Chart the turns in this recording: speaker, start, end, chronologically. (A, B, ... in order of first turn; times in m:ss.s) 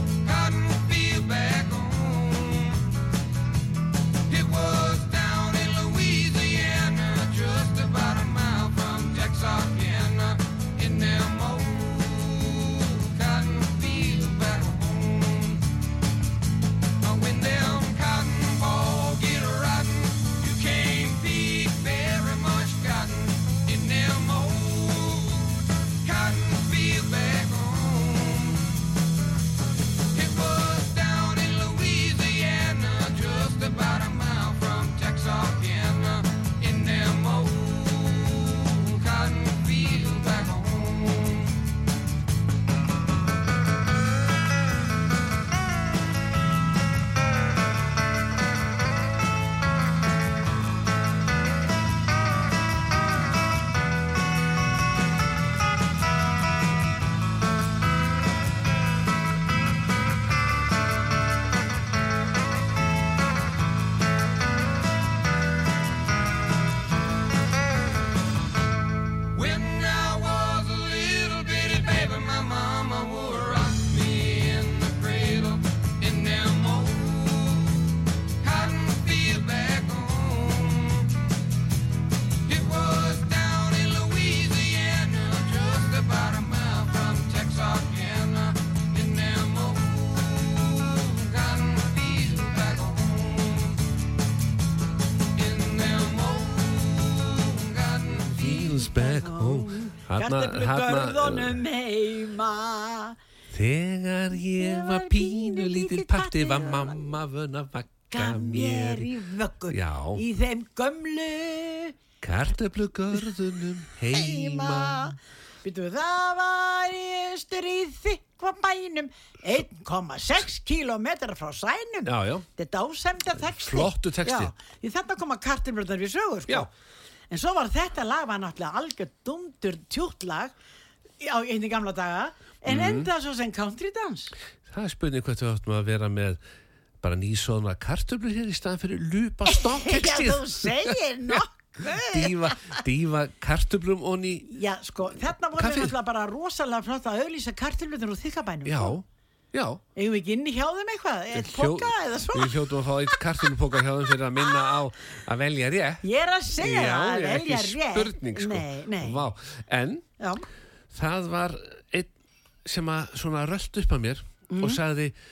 0:00.2-0:02.8 A
0:04.3-0:15.6 A
0:17.0-0:28.7 A
0:30.1-0:41.6 A
1:09.3-1:17.8 A
1:18.4-1:21.1 A
1:22.5-1:33.8 A
1:35.4-1:38.6 A
1:38.2-1:41.6 B
1:38.7-1:43.2 C
1:43.5-1:49.1 B
1:44.6-1:47.1 C
1:48.1-1:52.0 C
1:49.7-1:50.2 B
1:52.2-1:55.1 B
1:54.1-2:06.7 C
2:02.1-2:02.5 B
2:03.6-2:04.5 B
2:07.3-2:10.5 C
2:11.2-2:14.3 C
2:12.7-2:13.1 B
2:14.6-2:16.4 B
2:17.0-2:21.4 B
2:19.5-2:22.8 C
2:22.0-2:24.5 B
2:24.4-2:29.0 C
2:25.6-2:25.9 B
2:28.6-2:29.8 B
2:30.0-2:32.6 C
2:31.4-2:36.0 B
2:36.0-2:39.2 C
2:36.6-2:40.1 B
2:40.2-2:40.5 C
2:40.9-2:42.1 B
2:42.6-2:45.1 B
2:44.5-2:44.8 C